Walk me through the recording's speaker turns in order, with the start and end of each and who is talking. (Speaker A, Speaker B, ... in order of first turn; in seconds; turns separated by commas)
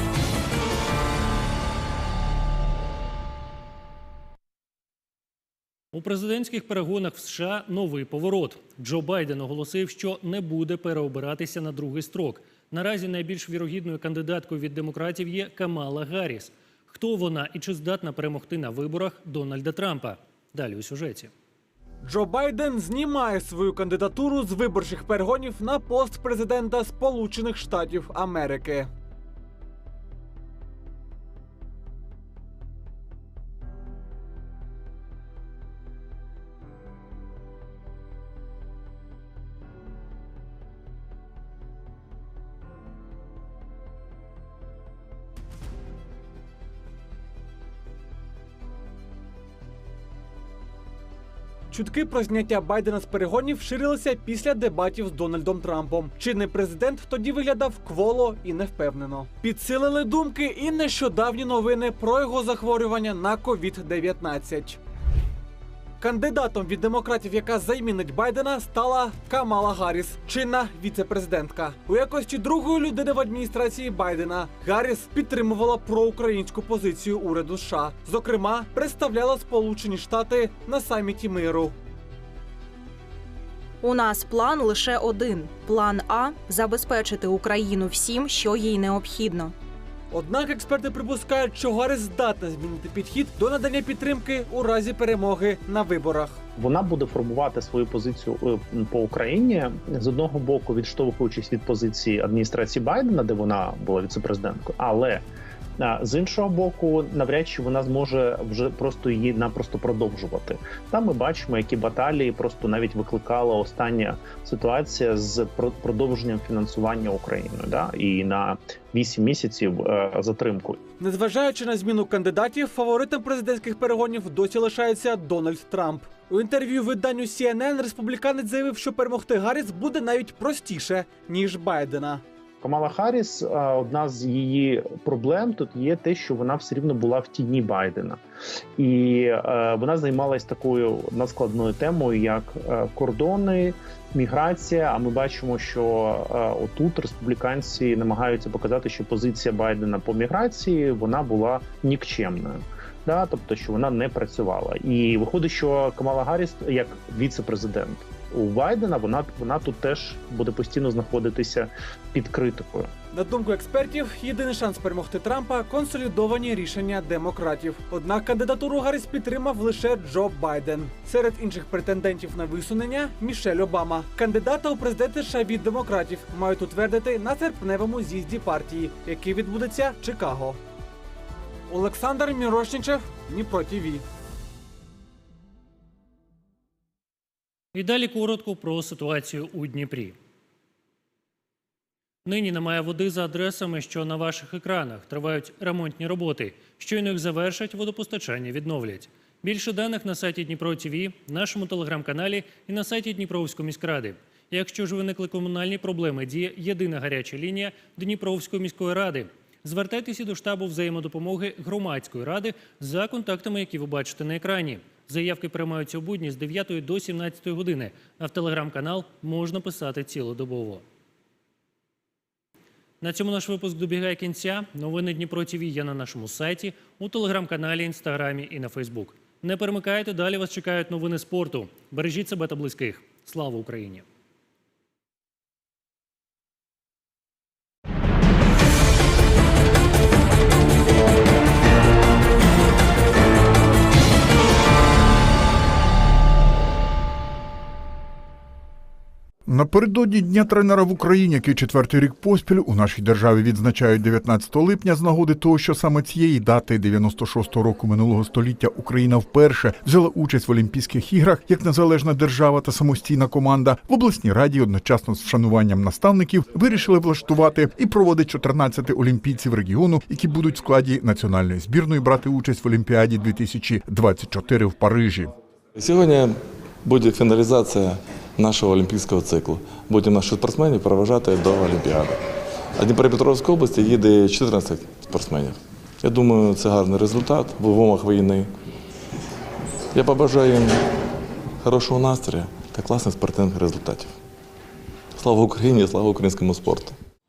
Speaker A: 5.9-21.3, Speaker B: 22.0-28.9, Speaker B: 51.7-64.8, Speaker B: 66.0-81.7, Speaker C: 83.8-89.5, Speaker B: 90.1-96.4, Speaker D: 96.6-105.2, Speaker D: 105.8-120.8, Speaker B: 121.0-132.2, Speaker D: 132.6-138.2, Speaker D: 138.8-162.9, Speaker B: 163.1-180.6, Speaker B: 181.7-184.0, Speaker A: 187.7-190.1, Speaker A: 192.2-220.8, Speaker A: 223.0-234.0, Speaker E: 249.5-275.3, Speaker F: 275.8-282.2, Speaker F: 282.8-288.5, Speaker F: 289.9-290.8, Speaker F: 291.6-294.1, Speaker F: 295.2-296.9